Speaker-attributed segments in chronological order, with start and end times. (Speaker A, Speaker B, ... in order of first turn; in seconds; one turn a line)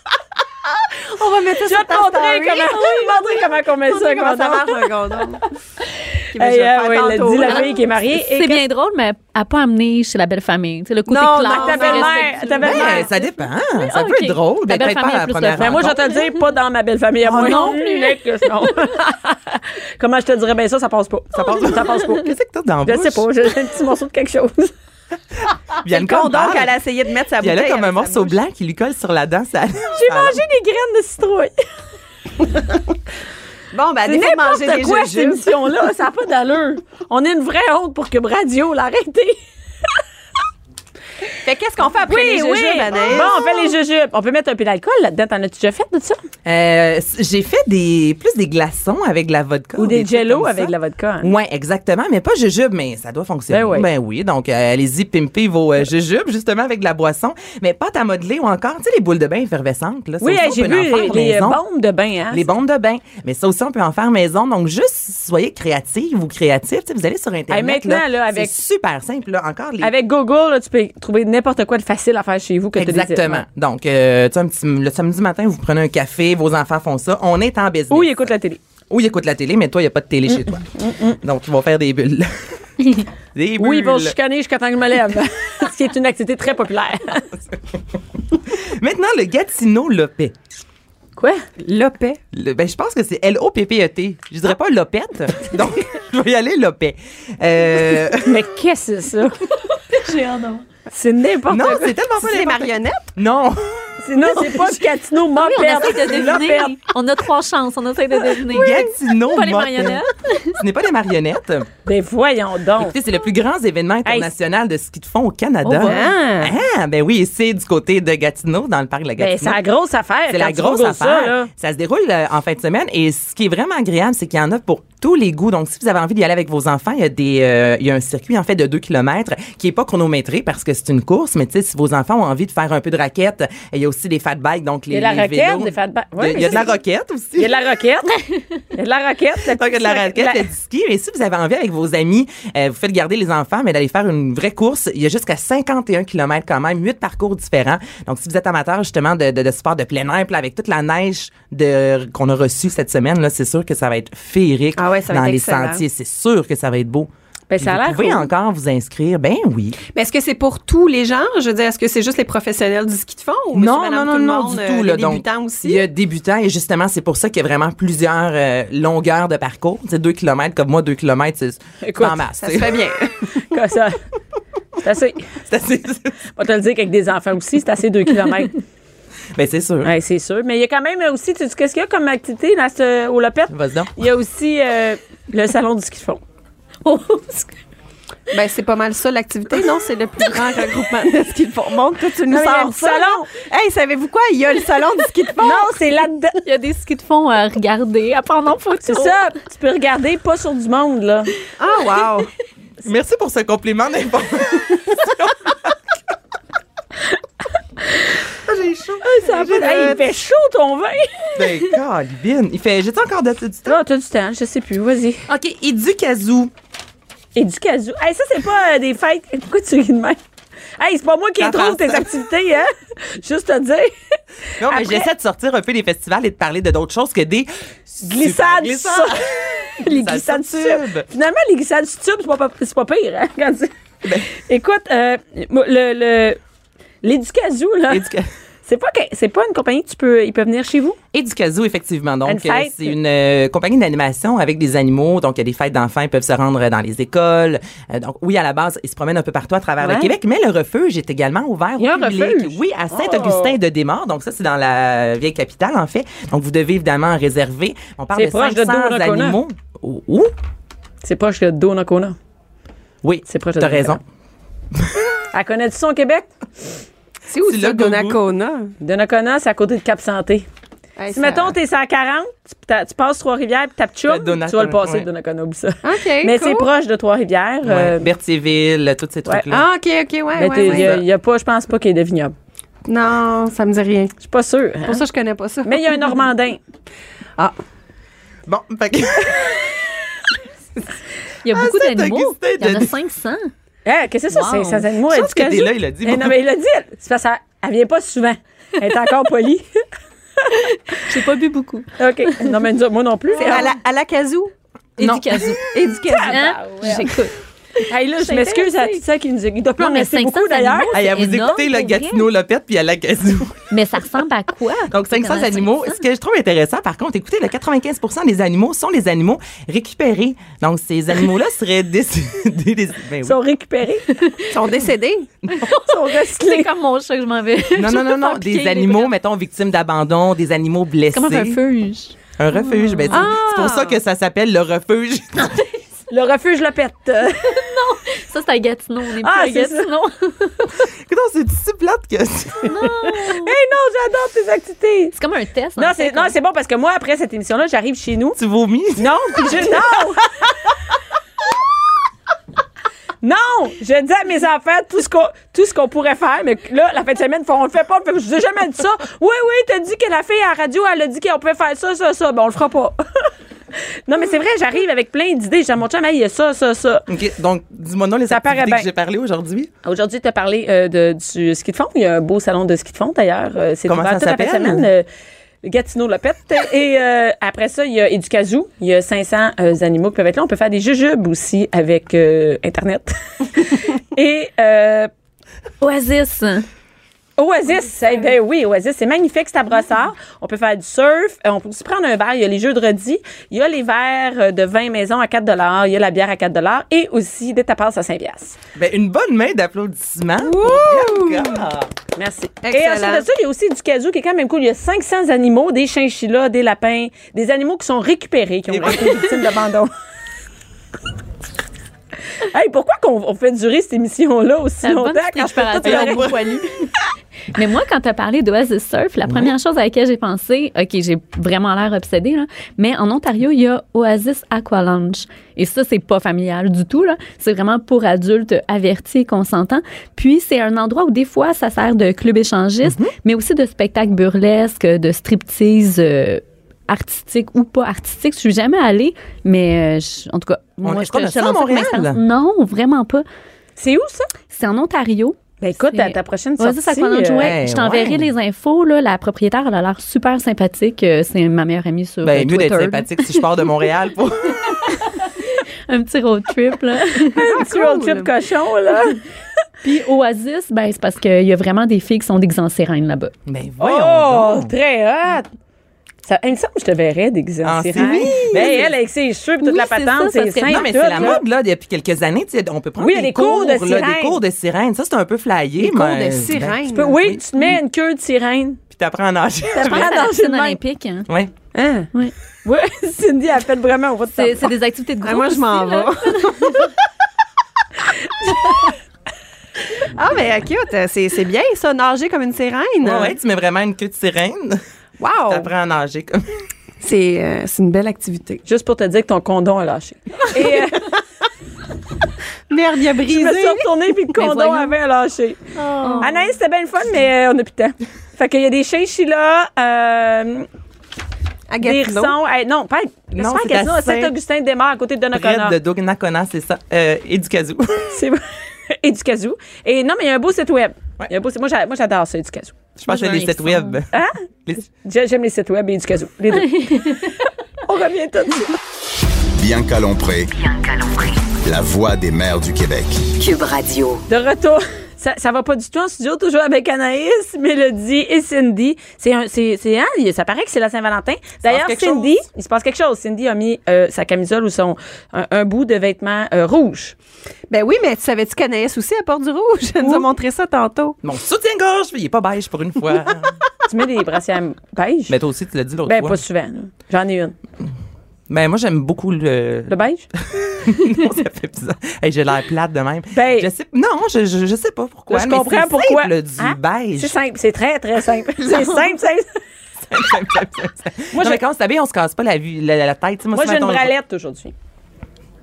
Speaker A: 0.9-5.5
Speaker B: 1.6-4.8
Speaker B: 6.2-8.7
Speaker A: 6.3-7.8
Speaker C: 7.5-13.0
Speaker A: 11.1-13.1
Speaker B: 11.4-13.1
Speaker D: 12.6-16.0
Speaker C: 13.8-16.2
Speaker B: 15.6-22.3
Speaker C: 17.3-18.2
Speaker D: 17.3-17.7
Speaker D: 21.3-23.2
Speaker B: 22.9-24.7
Speaker D: 25.8-26.7
Speaker A: 25.9-28.4
Speaker D: 27.4-30.4
Speaker B: 29.9-31.6
Speaker A: 33.7-35.5
Speaker B: 34.0-39.4
Speaker A: 41.4-43.7
Speaker B: 42.0-46.2
Speaker D: 46.4-61.6
Speaker B: 49.8-51.3
Speaker B: 53.5-53.9
Speaker B: 60.2-62.4
Speaker D: 62.3-69.9
Speaker B: 67.5-68.5
Speaker B: 69.8-73.4
Speaker D: 72.8-78.2
Speaker B: 77.9-78.6
Speaker D: 78.9-84.1
Speaker B: 80.3-81.2
Speaker B: 83.6-87.3
Speaker D: 88.5-90.3
Speaker B: 91.2-91.5
Speaker A: 91.6-92.2
Speaker D: 92.3-98.4
Speaker B: 98.2-99.5
Speaker C: 99.7-100.6
Speaker B: 100.9-101.9
Speaker D: 101.5-104.4
Speaker A: 102.2-103.1
Speaker B: 104.0-106.8
Speaker C: 105.3-108.8
Speaker D: 106.0-106.4
Speaker D: 108.5-111.7
Speaker A: 108.5-108.9
Speaker C: 109.3-110.6
Speaker B: 111.8-112.9
Speaker D: 112.8-119.6
Speaker C: 115.7-116.0
Speaker A: 115.8-116.5
Speaker B: 119.2-121.5
Speaker D: 120.3-137.5
Speaker B: 134.9-136.8
Speaker B: 137.4-138.2
Speaker B: 138.7-140.5
Speaker D: 139.6-157.1
Speaker A: 154.8-155.8
Speaker B: 157.5-158.3
Speaker D: 157.6-159.8
Speaker A: 159.9-165.8
Speaker D: 163.5-172.8
Speaker B: 171.8-172.2
Speaker A: 172.4-173.3
Speaker B: 173.5-174.0
Speaker B: 174.8-175.3
Speaker D: 175.5-176.2
Speaker B: 176.3-178.6
Speaker D: 179.3-179.9
Speaker B: 179.8-186.2
Speaker D: 183.5-183.9
Speaker C: 186.8-187.5
Speaker A: 188.3-195.7
Speaker B: 192.3-193.3
Speaker B: 195.4-196.4
Speaker C: 196.4-199.2
Speaker B: 198.8-201.3
Speaker A: 201.6-202.3
Speaker D: 202.8-205.7
Speaker D: 208.4-210.1
Speaker B: 209.0-211.4
Speaker D: 211.3-213.8
Speaker B: 213.7-215.3
Speaker D: 215.3-216.5
Speaker B: 217.3-220.2
Speaker B: 220.8-225.1
Speaker D: 221.4-222.1
Speaker D: 224.6-231.1
Speaker B: 228.0-233.7
Speaker B: 234.3-236.4
Speaker B: 237.0-238.1
Speaker D: 237.9-238.3
Speaker B: 238.6-241.0
Speaker D: 241.1-260.3
Speaker B: 242.3-242.9
Speaker B: 249.8-250.1
Speaker B: 251.8-253.6
Speaker B: 258.1-259.4
Speaker B: 261.0-262.1
Speaker D: 263.0-264.0
Speaker B: 263.3-264.0
Speaker B: 265.3-266.3
Speaker A: 267.3-268.7
Speaker D: 267.4-268.2
Speaker B: 268.8-270.5
Speaker A: 271.0-271.6
Speaker B: 271.1-278.1
Speaker D: 274.1-275.1
Speaker A: 275.8-276.7
Speaker D: 277.6-279.6
Speaker A: 279.5-280.9
Speaker B: 280.3-282.3
Speaker D: 280.6-281.0
Speaker A: 282.9-284.1
Speaker B: 284.2-285.0
Speaker A: 284.8-286.2
Speaker B: 285.6-286.6
Speaker D: 288.5-290.2
Speaker C: 291.4-293.5
Speaker D: 291.5-292.9
Speaker B: 293.8-299.8
Speaker C: 294.3-294.9
Speaker D: 295.1-296.3
Speaker C: 300.9-302.6
Speaker B: 302.0-303.7
Speaker A: 303.3-304.5
Speaker D: 305.0-305.6
Speaker C: 305.0-305.6
Speaker A: 305.6-306.6
Speaker B: 306.1-307.1
Speaker C: 306.3-309.0
Speaker B: 307.9-310.9
Speaker C: 309.8-312.3
Speaker D: 310.9-313.6
Speaker C: 313.7-316.0
Speaker D: 314.9-323.4
Speaker B: 323.2-324.1
Speaker C: 324.1-324.6
Speaker A: 324.5-325.3
Speaker C: 325.5-329.1
Speaker B: 325.8-326.7
Speaker D: 327.7-331.6
Speaker C: 331.1-333.3
Speaker D: 332.4-335.6
Speaker A: 333.1-334.0
Speaker B: 336.1-337.6
Speaker C: 337.4-340.8
Speaker B: 339.2-339.9
Speaker D: 340.8-342.8
Speaker C: 342.6-343.5
Speaker B: 343.1-345.1
Speaker C: 345.1-346.3
Speaker B: 345.8-348.4
Speaker D: 348.4-349.8
Speaker B: 348.9-350.2
Speaker B: 353.2-367.1
Speaker D: 367.1-369.7
Speaker B: 368.3-368.9
Speaker B: 369.8-375.1
Speaker D: 373.9-374.9
Speaker B: 375.6-385.1
Speaker C: 385.8-386.6
Speaker B: 387.4-398.6
Speaker D: 398.7-401.9
Speaker A: 400.4-401.6
Speaker B: 402.1-409.9
Speaker A: 402.6-403.3
Speaker D: 408.7-409.3
Speaker B: 412.4-416.3
Speaker C: 414.8-416.9
Speaker D: 415.8-416.5
Speaker C: 417.5-443.2
Speaker D: 419.3-419.5
Speaker D: 432.8-433.1
Speaker D: 440.8-442.2
Speaker B: 443.8-444.3
Speaker C: 444.5-453.6
Speaker B: 445.6-447.5
Speaker D: 447.4-448.3
Speaker D: 452.2-454.9
Speaker C: 454.7-457.6
Speaker B: 457.3-459.2
Speaker A: 457.4-458.3
Speaker C: 459.8-463.3
Speaker D: 463.4-464.7
Speaker B: 463.8-465.5
Speaker B: 466.2-471.4
Speaker D: 467.6-468.8
Speaker C: 468.3-468.8
Speaker C: 469.6-471.4
Speaker D: 470.7-477.4
Speaker B: 473.0-474.4
Speaker A: 475.8-477.2
Speaker B: 476.9-478.8
Speaker D: 478.9-480.3
Speaker B: 479.7-480.8
Speaker C: 479.8-481.3
Speaker A: 481.8-482.1
Speaker B: 482.6-484.7
Speaker C: 484.3-486.9
Speaker A: 485.2-486.9
Speaker A: 490.0-493.4
Speaker D: 493.0-494.8
Speaker A: 495.2-495.7
Speaker D: 495.5-496.4
Speaker A: 497.0-498.6
Speaker B: 498.6-501.1
Speaker A: 500.6-501.1
Speaker A: 502.7-504.7
Speaker B: 503.3-505.6
Speaker C: 504.4-504.8
Speaker A: 505.8-506.3
Speaker B: 506.2-510.7
Speaker A: 511.7-512.3
Speaker B: 511.8-515.8
Speaker D: 513.3-514.3
Speaker D: 515.3-518.2
Speaker B: 518.1-522.8
Speaker D: 523.0-524.1
Speaker C: 523.0-524.0
Speaker B: 524.9-527.3
Speaker C: 526.7-527.3
Speaker B: 527.9-528.8
Speaker E: 529.5-530.5
Speaker F: 530.5-531.6
Speaker E: 531.6-533.3
Speaker F: 533.3-534.2
Speaker B: 534.3-547.1
Speaker D: 541.6-542.3
Speaker A: 547.7-551.2
Speaker D: 551.2-553.6
Speaker B: 553.9-555.3
Speaker D: 555.3-556.4
Speaker B: 556.1-557.5
Speaker D: 558.5-567.3
Speaker B: 559.9-560.3
Speaker B: 563.3-563.7
Speaker B: 565.3-569.6
Speaker D: 570.1-574.1
Speaker B: 571.3-571.6
Speaker B: 573.5-574.7